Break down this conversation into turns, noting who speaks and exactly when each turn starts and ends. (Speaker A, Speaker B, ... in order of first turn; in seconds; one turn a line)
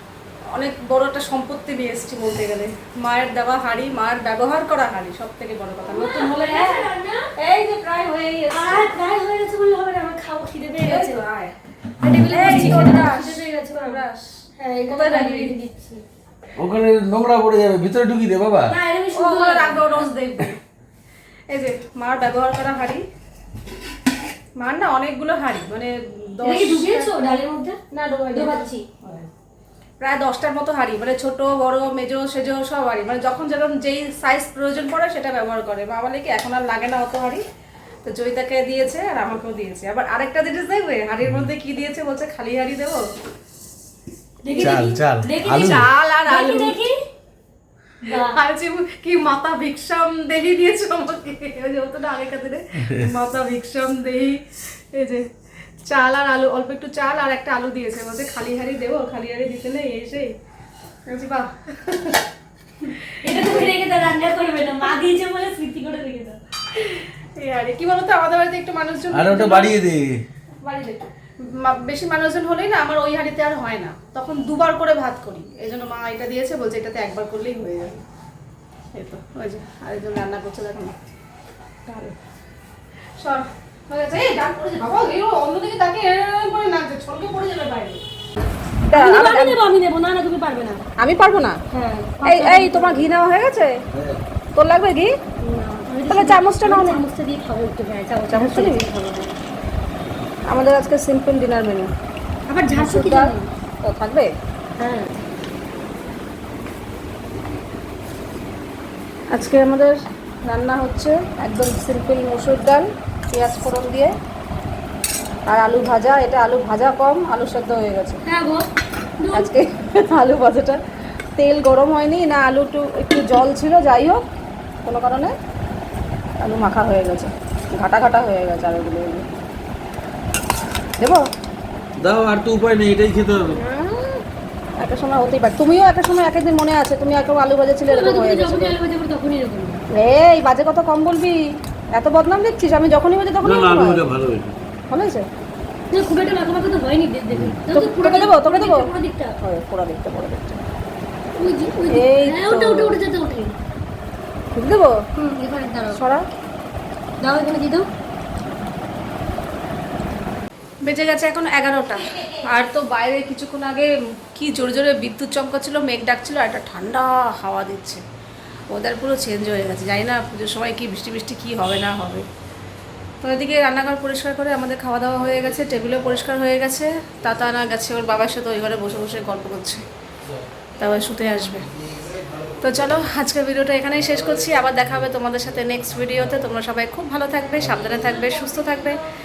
Speaker A: 0.5-8.9
Speaker B: 5.9-7.3
Speaker B: 8.5-11.2
Speaker A: 10.8-11.5
Speaker B: 12.0-14.0
Speaker A: 12.3-14.3
Speaker B: 14.6-16.0
Speaker A: 14.9-15.5
Speaker C: 16.6-18.8
Speaker B: 18.7-20.1
Speaker A: 19.1-20.6
Speaker A: 21.5-23.0
Speaker A: 24.6-27.1
Speaker B: 26.4-27.8
Speaker A: 27.9-29.3
Speaker B: 28.3-28.9
Speaker A: 30.0-37.4
Speaker A: 38.0-43.0
Speaker B: 44.4-47.0
Speaker A: 44.5-44.8
Speaker C: 44.6-45.9
Speaker A: 45.5-46.8
Speaker B: 48.0-48.4
Speaker A: 48.1-60.4
Speaker A: 61.1-62.2
Speaker A: 62.8-63.7
Speaker B: 63.2-66.4
Speaker A: 66.7-69.8
Speaker C: 69.1-70.2
Speaker A: 70.6-78.0
Speaker A: 78.9-81.0
Speaker A: 81.9-82.2
Speaker A: 83.2-88.0
Speaker A: 88.9-89.6
Speaker B: 88.9-90.8
Speaker A: 91.0-91.6
Speaker B: 91.7-93.1
Speaker A: 92.2-93.8
Speaker C: 93.9-94.2
Speaker A: 94.6-95.1
Speaker B: 95.4-99.2
Speaker A: 96.1-97.0
Speaker A: 98.3-99.3
Speaker A: 100.5-101.9
Speaker B: 102.5-103.5
Speaker A: 102.7-104.3
Speaker B: 104.8-105.2
Speaker A: 109.3-114.1
Speaker A: 115.5-118.2
Speaker B: 118.2-118.7
Speaker B: 119.2-119.5
Speaker A: 119.3-120.8
Speaker A: 121.4-124.2
Speaker A: 124.8-125.3
Speaker A: 126.4-129.3
Speaker A: 131.0-131.3
Speaker C: 132.0-133.6
Speaker A: 133.5-134.2
Speaker A: 134.8-138.8
Speaker B: 137.9-139.8
Speaker A: 139.9-141.4
Speaker A: 141.9-144.1
Speaker C: 143.4-144.6
Speaker A: 144.9-145.3
Speaker B: 145.9-149.4
Speaker C: 147.3-147.6
Speaker A: 147.7-148.9
Speaker A: 149.4-150.6
Speaker B: 151.4-153.5
Speaker A: 151.9-153.0
Speaker A: 154.6-155.0
Speaker B: 155.2-156.0
Speaker A: 155.9-156.3
Speaker B: 157.2-157.9
Speaker A: 160.8-168.0
Speaker A: 168.7-172.2
Speaker A: 173.2-179.8
Speaker A: 180.8-181.7
Speaker A: 182.6-189.0